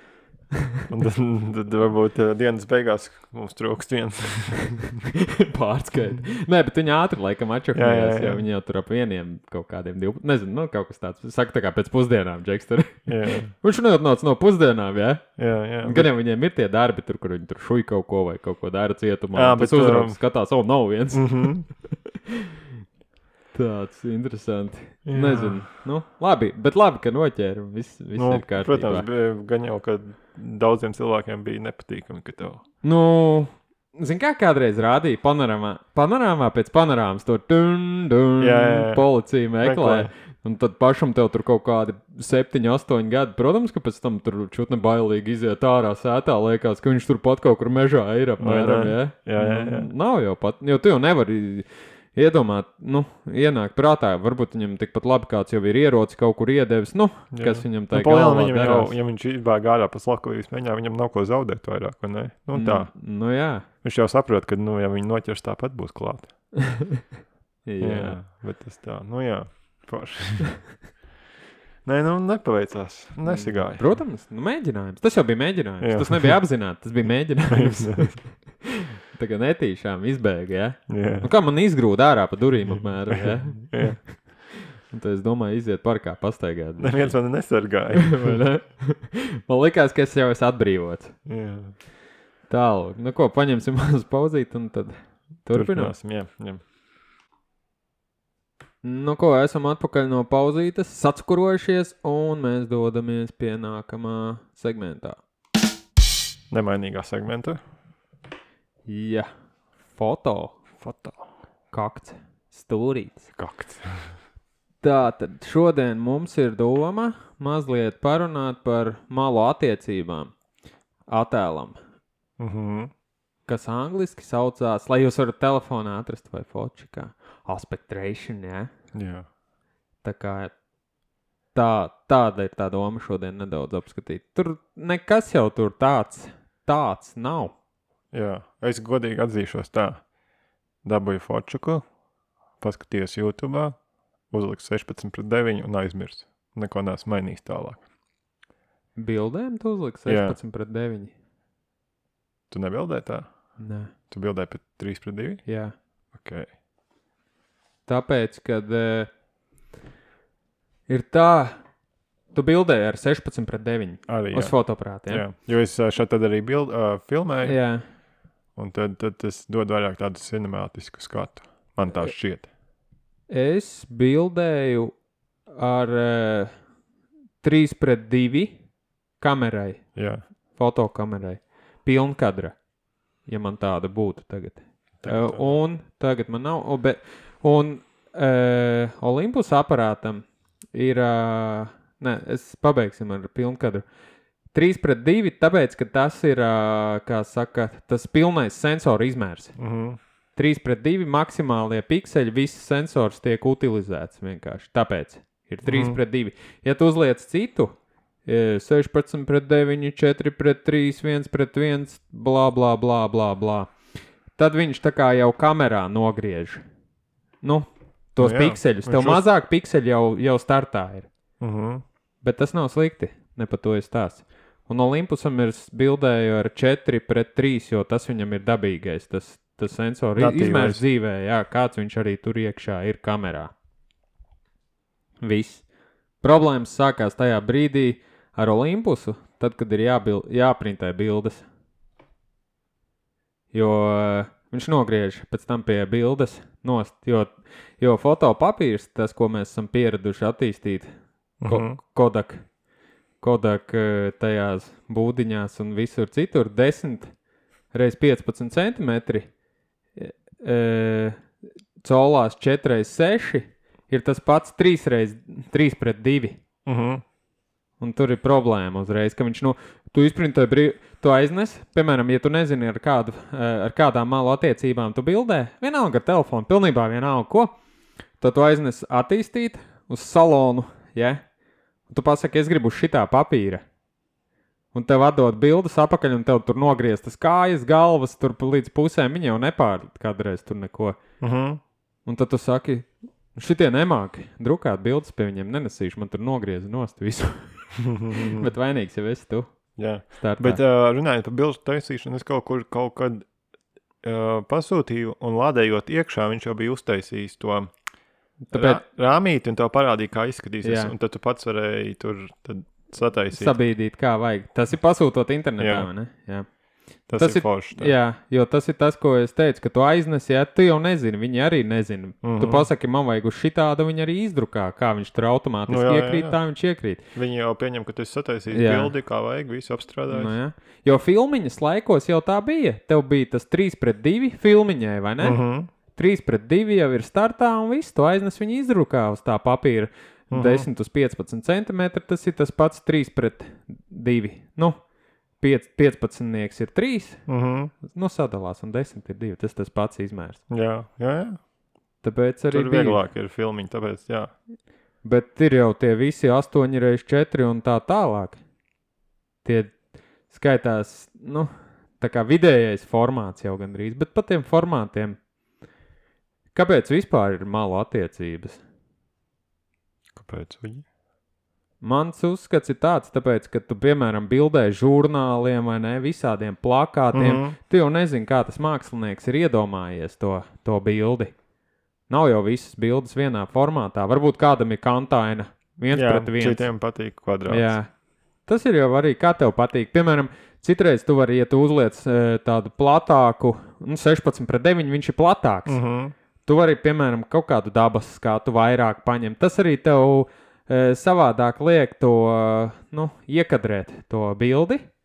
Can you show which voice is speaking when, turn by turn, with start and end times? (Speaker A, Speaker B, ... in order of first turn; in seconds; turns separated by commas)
Speaker A: 0.5-0.8, Speaker B: 0.9-5.0, Speaker A: 5.2-22.5, Speaker B: 7.7-8.4, Speaker B: 13.1-13.5, Speaker B: 15.4-16.1, Speaker B: 19.4-20.2, Speaker B: 21.1-21.6, Speaker A: 23.5-29.1, Speaker B: 25.1-25.6, Speaker B: 28.2-32.6, Speaker A: 32.8-58.9, Speaker B: 38.4-39.1, Speaker B: 39.6-40.1, Speaker B: 48.4-49.9, Speaker B: 57.3-62.9, Speaker A: 62.5-63.6, Speaker B: 63.8-66.3, Speaker A: 66.7-67.0, Speaker A: 67.7-68.2, Speaker B: 67.8-70.5, Speaker B: 71.8-73.8, Speaker A: 73.2-87.1, Speaker B: 75.8-76.4, Speaker B: 77.5-78.2, Speaker B: 80.9-81.3, Speaker B: 83.1-84.0, Speaker B: 86.8-88.4, Speaker A: 88.0-91.2, Speaker B: 91.3-91.7, Speaker A: 92.5-95.9, Speaker B: 95.5-96.6, Speaker A: 98.8-105.2, Speaker B: 106.5-107.6, Speaker A: 108.9-109.3, Speaker A: 109.9-110.6, Speaker B: 110.8-111.2, Speaker A: 111.7-113.3, Speaker B: 113.4-114.1, Speaker A: 114.8-120.3, Speaker A: 121.1-121.8, Speaker B: 122.4-122.9, Speaker A: 123.5-128.7, Speaker B: 128.9-129.3, Speaker A: 130.0-130.5, Speaker A: 131.5-137.6, Speaker B: 138.1-140.0, Speaker B: 140.8-141.8, Speaker B: 142.6-143.8, Speaker B: 144.3-147.8, Speaker A: 149.0-151.1, Speaker B: 150.1-150.4, Speaker B: 152.5-153.3, Speaker A: 153.6-153.9, Speaker B: 154.1-155.4, Speaker A: 155.5-155.7, Speaker B: 156.1-156.5, Speaker A: 157.9-159.1, Speaker A: 160.9-161.6, Speaker A: 162.3-165.2, Speaker B: 164.1-167.6, Speaker A: 167.4-167.8, Speaker B: 168.6-172.5, Speaker A: 173.3-174.9, Speaker A: 175.6-176.5, Speaker A: 177.4-178.6, Speaker A: 179.2-179.9, Speaker B: 179.9-180.2, Speaker A: 180.6-182.6, Speaker A: 183.3-193.8, Speaker B: 185.0-185.6, Speaker A: 194.5-199.5, Speaker B: 199.6-200.0, Speaker A: 200.4-207.7, Speaker B: 205.7-206.0, Speaker A: 208.3-213.7, Speaker A: 214.4-216.6, Speaker A: 217.4-221.1, Speaker B: 218.2-219.2, Speaker B: 221.4-221.8, Speaker A: 222.2-233.5, Speaker B: 230.2-230.8, Speaker A: 235.2-235.6, Speaker A: 236.2-241.4, Speaker A: 243.5-250.9, Speaker B: 251.4-251.8, Speaker A: 251.5-252.4, Speaker A: 253.2-257.1, Speaker A: 257.7-259.3, Speaker A: 260.0-261.2, Speaker A: 261.8-266.4, Speaker B: 266.7-267.0, Speaker A: 267.8-277.6, Speaker A: 278.2-281.2, Speaker A: 281.9-283.6, Speaker A: 284.7-291.0, Speaker B: 291.2-291.6, Speaker A: 292.1-299.5, Speaker B: 297.8-298.5, Speaker B: 299.8-303.3, Speaker A: 300.2-300.6, Speaker B: 304.0-307.7, Speaker A: 308.4-308.8, Speaker B: 308.5-313.6, Speaker A: 310.6-310.9, Speaker A: 313.3-316.5, Speaker B: 315.6-315.9, Speaker B: 317.1-317.9, Speaker A: 317.2-327.0, Speaker B: 322.2-322.7, Speaker B: 325.7-326.4, Speaker B: 327.1-330.3, Speaker A: 328.5-328.9, Speaker A: 330.1-335.4, Speaker B: 335.2-335.7, Speaker A: 335.9-344.8, Speaker B: 340.3-340.7, Speaker A: 345.4-347.2, Speaker B: 347.3-347.7, Speaker A: 347.9-350.4, Speaker B: 350.5-351.4, Speaker A: 352.0-353.0, Speaker B: 352.5-354.3, Speaker A: 355.0-358.4, Speaker A: 359.4-359.8, Speaker A: 360.3-365.2, Speaker A: 366.5-368.6, Speaker B: 370.2-370.9, Speaker A: 371.8-381.3, Speaker B: 377.1-377.6, Speaker A: 382.1-386.7, Speaker B: 385.9-387.7, Speaker A: 387.5-387.9, Speaker A: 388.5-395.8, Speaker B: 395.7-396.1, Speaker A: 396.4-404.8